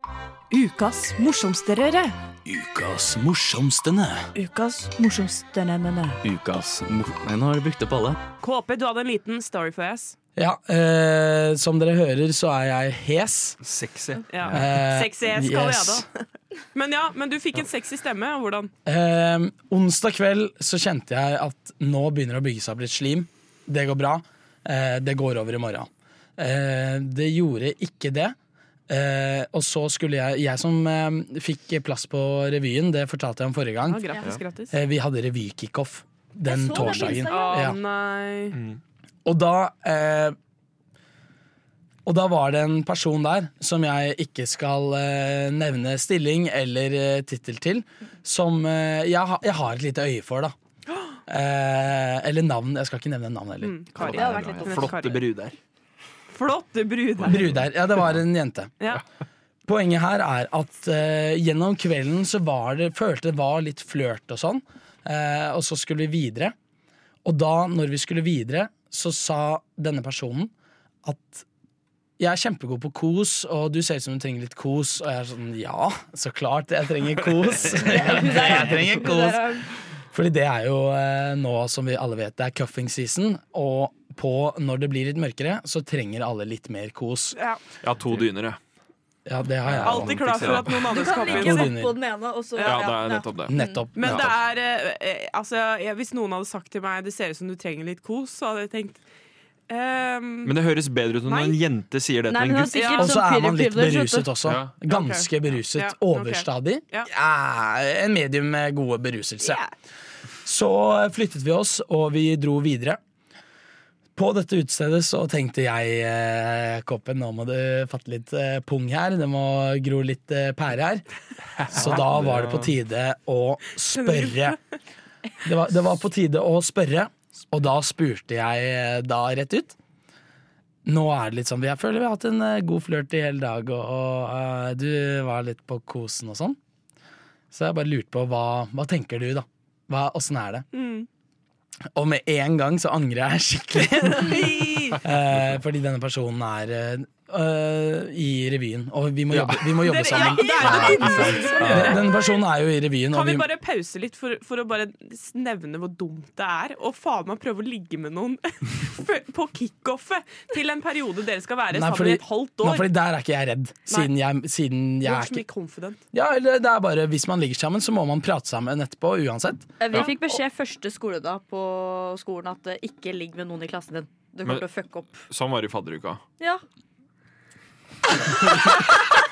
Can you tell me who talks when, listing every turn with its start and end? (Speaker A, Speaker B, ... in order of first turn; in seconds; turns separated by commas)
Speaker A: 0.5-2.1, Speaker B: 2.4-4.3, Speaker A: 4.3-6.2, Speaker C: 6.2-8.2, Speaker D: 8.4-10.2, Speaker B: 10.3-13.6, Speaker E: 13.6-14.2, Speaker D: 14.3-18.7, Speaker B: 14.5-16.1, Speaker B: 18.8-28.4, Speaker B: 28.9-34.1, Speaker D: 33.9-34.8, Speaker B: 34.7-37.8, Speaker F: 36.4-37.7, Speaker D: 36.7-38.6, Speaker E: 38.5-38.8, Speaker B: 39.2-40.4, Speaker B: 42.0-50.5, Speaker D: 50.9-51.2, Speaker B: 51.3-53.8, Speaker D: 53.6-55.2, Speaker C: 54.0-54.8, Speaker F: 54.0-55.0, Speaker E: 54.6-55.5, Speaker D: 56.3-57.6, Speaker B: 57.2-58.7, Speaker B: 59.6-66.5, Speaker B: 67.2-70.5, Speaker B: 71.0-71.5, Speaker B: 72.2-87.4, Speaker F: 77.8-79.7, Speaker D: 87.3-87.6, Speaker E: 87.8-88.6, Speaker B: 89.2-90.7, Speaker E: 89.6-91.3, Speaker D: 89.8-91.7, Speaker F: 90.9-93.8, Speaker B: 91.2-92.0, Speaker D: 92.5-92.9, Speaker E: 92.6-94.3, Speaker B: 93.5-94.3, Speaker D: 93.9-99.0, Speaker D: 99.7-100.5, Speaker E: 100.4-102.9, Speaker D: 101.3-101.6, Speaker F: 102.3-104.3, Speaker D: 102.7-103.1, Speaker B: 103.0-109.6, Speaker E: 104.4-104.7, Speaker D: 104.9-107.1, Speaker D: 109.4-109.7, Speaker B: 110.4-113.0, Speaker B: 114.2-121.0, Speaker E: 121.6-122.7, Speaker B: 121.7-124.6, Speaker D: 123.9-124.6, Speaker B: 125.4-129.8, Speaker B: 130.8-136.6, Speaker B: 137.5-140.6, Speaker D: 140.7-141.1, Speaker B: 141.9-153.5, Speaker D: 144.0-145.0, Speaker F: 144.6-144.9, Speaker D: 149.8-152.3, Speaker F: 150.2-151.7, Speaker D: 153.1-162.9, Speaker B: 161.7-165.4, Speaker D: 165.0-166.0, Speaker B: 166.1-169.8, Speaker F: 169.8-175.2, Speaker E: 175.2-176.2, Speaker F: 178.5-179.0